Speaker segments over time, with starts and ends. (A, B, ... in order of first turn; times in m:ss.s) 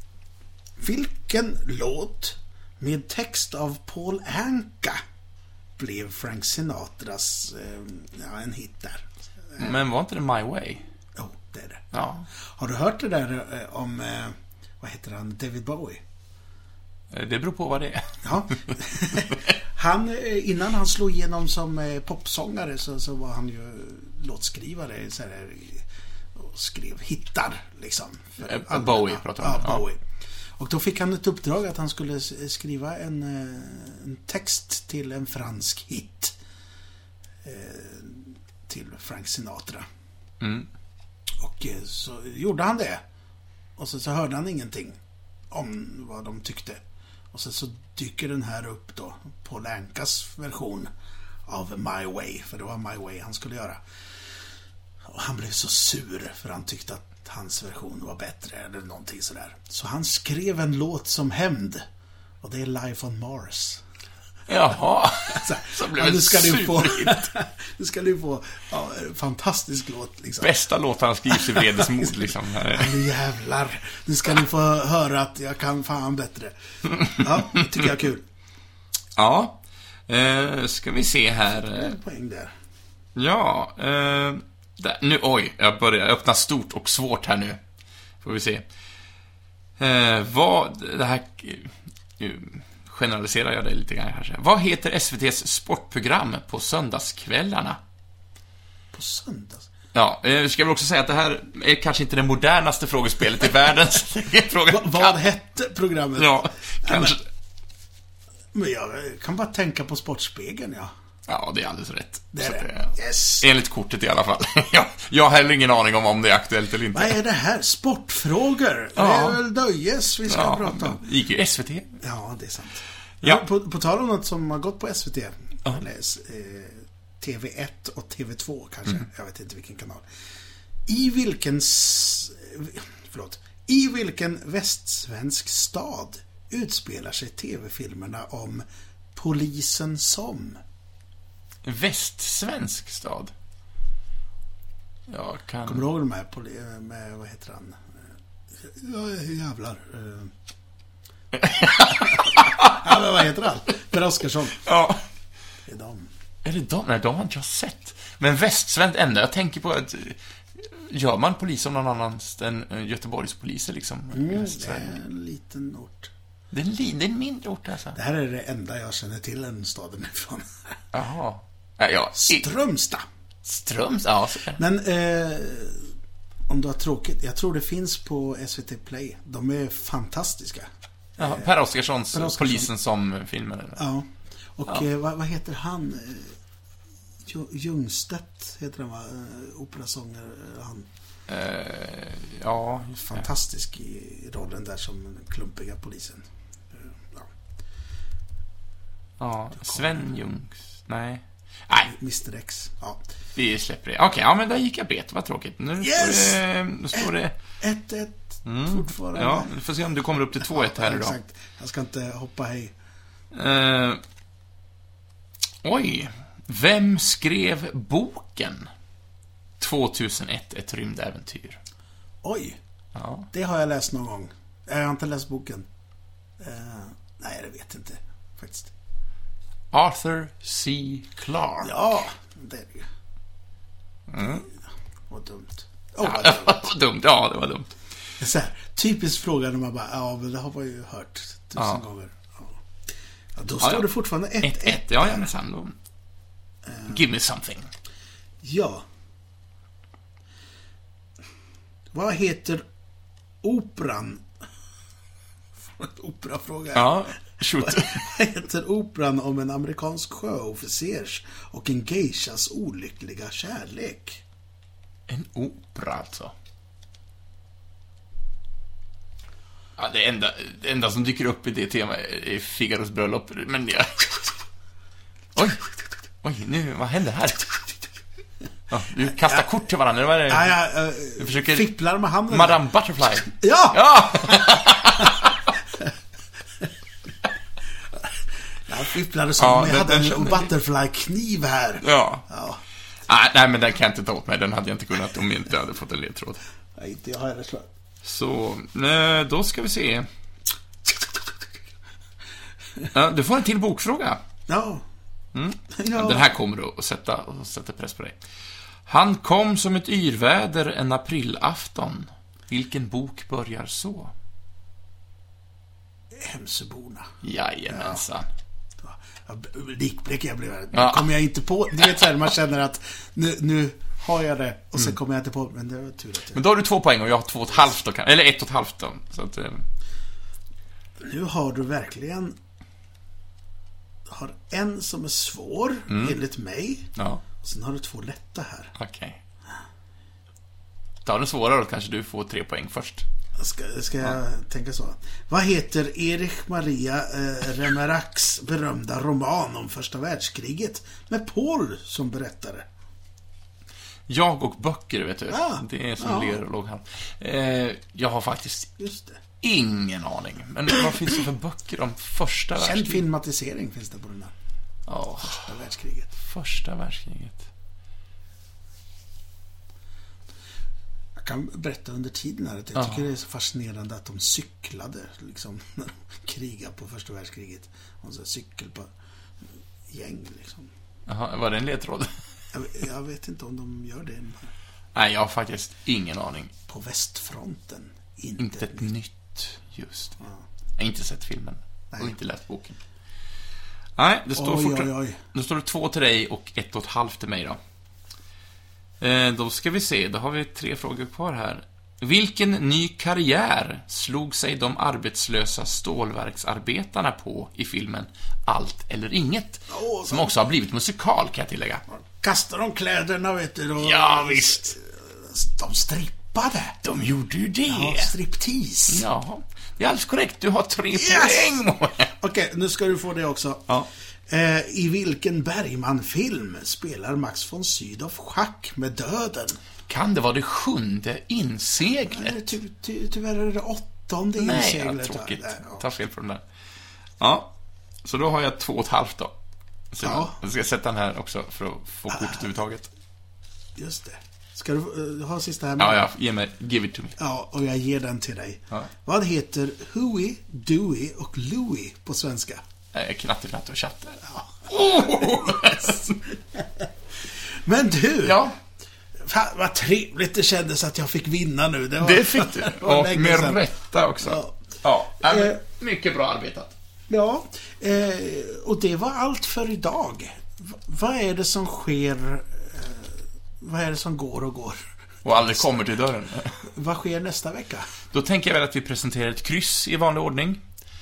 0:00.8-0:05.0 A
0:05.8-0:09.7 A
0:09.6-0:10.8 B
0:11.1-0:11.9 A
0:11.9-0:12.3 B
0:12.5-0:16.0 A
0:17.1-0:19.5 B
0:18.2-0:30.0 A
0:28.4-0:29.8 B
0:30.6-0:36.4 A
0:37.4-0:39.9 A
0:40.4-0:40.7 B
0:41.4-0:43.0 A
0:43.8-0:45.0 A
0:45.5-0:50.9 A
0:51.4-0:53.8 A
0:55.0-1:01.8 A
1:02.4-1:03.8 A
1:04.5-1:07.2 B
1:05.3-1:10.5 A
1:10.4-1:13.0 B
1:11.3-1:18.2 A
1:17.0-1:17.2 B
1:19.2-1:21.9 B
1:21.5-1:22.5 A
1:23.2-1:27.6 B
1:28.2-1:28.6 B
1:29.8-1:37.8 B
1:38.9-1:39.7 A
1:39.9-1:45.2 B
1:44.7-1:47.2 A
1:46.2-1:47.2 B
1:48.5-1:50.9 A
1:51.3-1:57.2 B
1:52.3-1:53.5 A
1:56.9-2:01.0 A
1:59.0-1:59.4 B
2:00.3-2:01.9 B
2:02.0-2:10.0 A
2:10.9-2:20.6 A
2:21.6-2:23.3 B
2:25.1-2:25.8 B
2:25.6-2:28.0 A
2:28.6-2:30.3 A
2:31.3-2:32.9 B
2:32.0-2:34.6 A
2:34.6-2:35.0 B
2:35.6-2:36.1 A
2:36.4-2:45.0 B
2:44.1-2:46.1 A
2:46.5-2:48.0 B
2:47.9-2:50.7 A
2:50.9-2:52.5 B
2:52.2-2:53.0 A
2:53.4-2:54.6 B
2:54.5-2:55.9 A
2:56.5-3:01.5 A
3:01.2-3:03.8 B
3:02.1-3:02.7 A
3:03.8-3:06.4 A
3:07.2-3:10.9 A
3:11.3-3:13.2 B
3:12.9-3:17.3 A
3:19.2-3:21.9 B
3:21.9-3:23.0 A
3:23.4-3:27.4 B
3:25.8-3:26.4 A
3:26.9-3:29.5 A
3:28.4-3:31.2 B
3:30.3-3:32.7 A
3:33.3-3:34.0 B
3:35.6-3:38.7 B
3:39.6-3:41.6 B
3:42.2-3:42.6 A
3:42.9-3:43.3 B
3:43.3-3:45.7 A
3:46.4-3:48.7 A
3:49.7-3:52.0 B
3:51.6-3:52.9 A
3:54.1-3:54.4 B
3:54.2-3:54.5 A
3:55.1-3:56.7 A
3:56.0-3:57.7 B
3:58.2-4:02.6 A
4:03.4-4:05.3 A
4:03.6-4:03.9 B
4:04.4-4:05.8 B
4:06.6-4:07.0 A
4:06.8-4:07.7 B
4:08.4-4:08.8 A
4:11.9-4:12.6 A
4:13.4-4:14.3 A
4:15.6-4:24.2 A
4:16.7-4:18.0 B
4:25.1-4:26.3 B
4:29.8-4:34.2 B
4:35.4-4:35.6 B
4:36.2-4:37.6 B
4:38.7-4:40.5 B
4:40.3-4:42.6 A
4:41.2-4:41.7 B
4:42.3-4:45.5 B
4:43.2-4:45.9 A
4:48.7-4:52.6 A
4:49.4-4:50.5 B
4:51.8-4:52.2 B
4:53.1-4:56.4 B
4:56.7-4:57.7 A
4:58.0-5:00.1 B
5:02.9-5:04.2 B
5:04.5-5:04.8 A
5:05.3-5:08.2 B
5:05.8-5:06.3 A
5:08.9-5:14.1 B
5:16.1-5:17.1 A
5:17.2-5:18.3 B
5:17.7-5:18.0 A
5:18.8-5:26.4 A
5:20.7-5:21.1 B
5:26.3-5:29.6 B
5:31.0-5:32.4 A
5:34.0-5:38.7 A
5:35.9-5:36.2 B
5:37.0-5:37.2 B
5:38.8-5:39.2 B
5:41.0-5:43.0 B
5:43.4-5:52.7 A
5:54.1-5:58.8 B
5:55.3-5:56.4 A
5:58.8-5:59.2 A
5:59.4-6:03.0 B
6:02.6-6:04.3 A
6:04.9-6:05.5 B
6:05.2-6:06.1 A
6:06.2-6:07.5 B
6:11.2-6:18.9 A
6:12.7-6:13.0 B
6:19.9-6:20.7 A
6:21.1-6:22.1 B
6:22.5-6:24.5 A
6:24.9-6:26.5 B
6:26.7-6:28.9 A
6:28.4-6:30.2 B
6:30.8-6:32.8 B
6:34.0-6:37.6 B
6:34.3-6:35.2 A
6:39.0-6:51.8 B
6:49.7-6:50.3 A
6:51.9-6:56.8 A
6:53.8-6:54.7 B
6:56.8-6:58.1 B
6:57.7-6:59.0 A
6:58.9-7:02.1 B
7:00.9-7:01.6 A
7:02.1-7:03.7 A
7:04.3-7:09.6 A
7:09.9-7:12.5 B
7:12.1-7:15.8 A
7:14.4-7:16.4 B
7:17.2-7:17.5 B
7:18.0-7:19.3 B
7:19.9-7:22.9 B
7:20.0-7:20.4 A
7:22.1-7:22.4 A
7:23.8-7:26.0 A
7:25.8-7:27.2 B
7:27.2-7:32.6 A
7:32.9-7:36.2 B
7:34.3-7:36.0 A
7:36.5-7:36.8 A
7:37.5-7:38.4 A
7:38.2-7:38.6 B
7:39.2-7:43.6 A
7:42.0-7:46.7 B
7:44.2-7:44.6 A
7:45.2-7:45.6 A
7:47.1-7:55.7 A
7:55.2-7:56.7 B
7:56.7-7:57.9 A
7:58.1-8:00.6 B